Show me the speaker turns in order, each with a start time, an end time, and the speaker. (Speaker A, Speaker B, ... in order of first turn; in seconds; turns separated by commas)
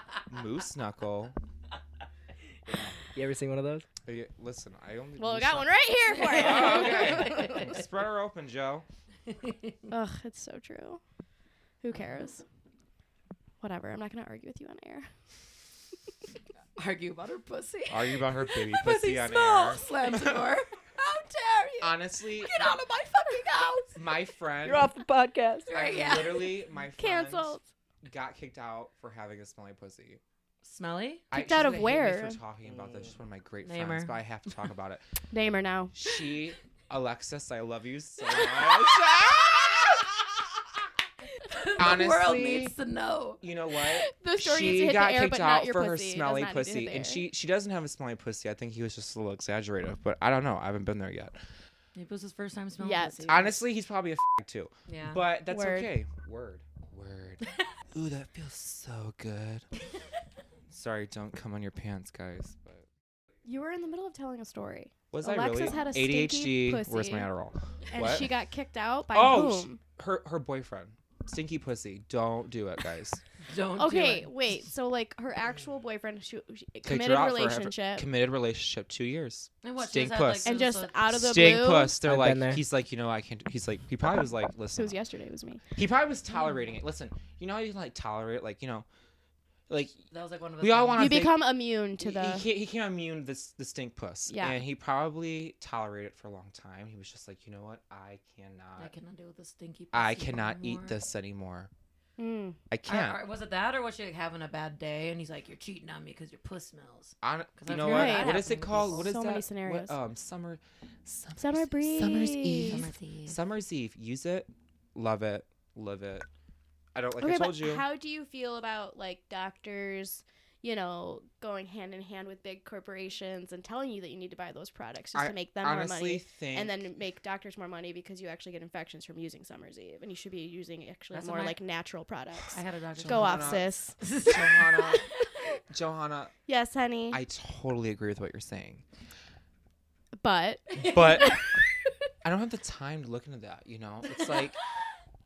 Speaker A: 0.3-1.3, Speaker B: 2.7-3.9, Speaker A: 4.0-8.8, Speaker C: 5.2-7.8, Speaker D: 6.3-7.7, Speaker D: 9.3-9.7, Speaker C: 9.9-11.0, Speaker C: 11.8-12.4, Speaker C: 13.6-15.1, Speaker D: 16.8-24.0, Speaker A: 17.9-20.4, Speaker A: 21.8-22.7, Speaker A: 23.9-24.9, Speaker B: 24.6-25.7, Speaker D: 25.6-26.6, Speaker A: 25.7-30.2, Speaker C: 27.0-27.6, Speaker D: 30.6-31.2, Speaker A: 31.3-35.0, Speaker C: 31.3-32.4, Speaker B: 32.7-33.1, Speaker D: 33.6-34.2, Speaker C: 35.3-35.9, Speaker A: 35.9-40.4, Speaker D: 38.5-38.8, Speaker D: 41.4-43.4, Speaker A: 41.8-42.7, Speaker A: 43.4-51.4, Speaker C: 43.9-47.2, Speaker D: 51.9-53.5, Speaker C: 52.8-53.3, Speaker A: 53.3-59.7, Speaker D: 54.9-55.2, Speaker C: 55.5-55.9, Speaker A: 60.7-62.9, Speaker C: 63.4-67.3, Speaker A: 65.1-68.3, Speaker C: 67.9-69.8, Speaker A: 69.1-73.2, Speaker D: 73.4-74.3, Speaker C: 73.8-78.1, Speaker A: 76.8-80.5, Speaker D: 79.6-81.5, Speaker C: 80.4-82.0, Speaker A: 81.1-85.0, Speaker B: 82.0-82.6, Speaker C: 84.7-85.6, Speaker A: 85.7-88.8, Speaker A: 89.7-90.0, Speaker D: 90.1-91.3, Speaker A: 90.6-91.4, Speaker C: 91.0-92.5, Speaker A: 92.0-98.9, Speaker C: 94.3-94.6, Speaker D: 98.8-101.0, Speaker A: 99.9-101.7, Speaker C: 102.2-102.6, Speaker A: 102.7-103.2, Speaker D: 102.9-109.1, Speaker A: 107.2-116.3, Speaker C: 107.7-110.0, Speaker C: 111.4-112.8, Speaker D: 112.7-113.4, Speaker A: 116.9-117.8, Speaker C: 117.2-134.0, Speaker A: 125.1-126.8, Speaker D: 131.1-131.6, Speaker D: 132.5-135.2, Speaker A: 133.0-135.1, Speaker A: 135.7-136.3, Speaker C: 136.5-137.2, Speaker A: 137.1-138.8, Speaker C: 140.2-141.3, Speaker D: 140.7-141.4, Speaker A: 140.8-141.4, Speaker A: 142.2-144.6, Speaker D: 144.2-144.5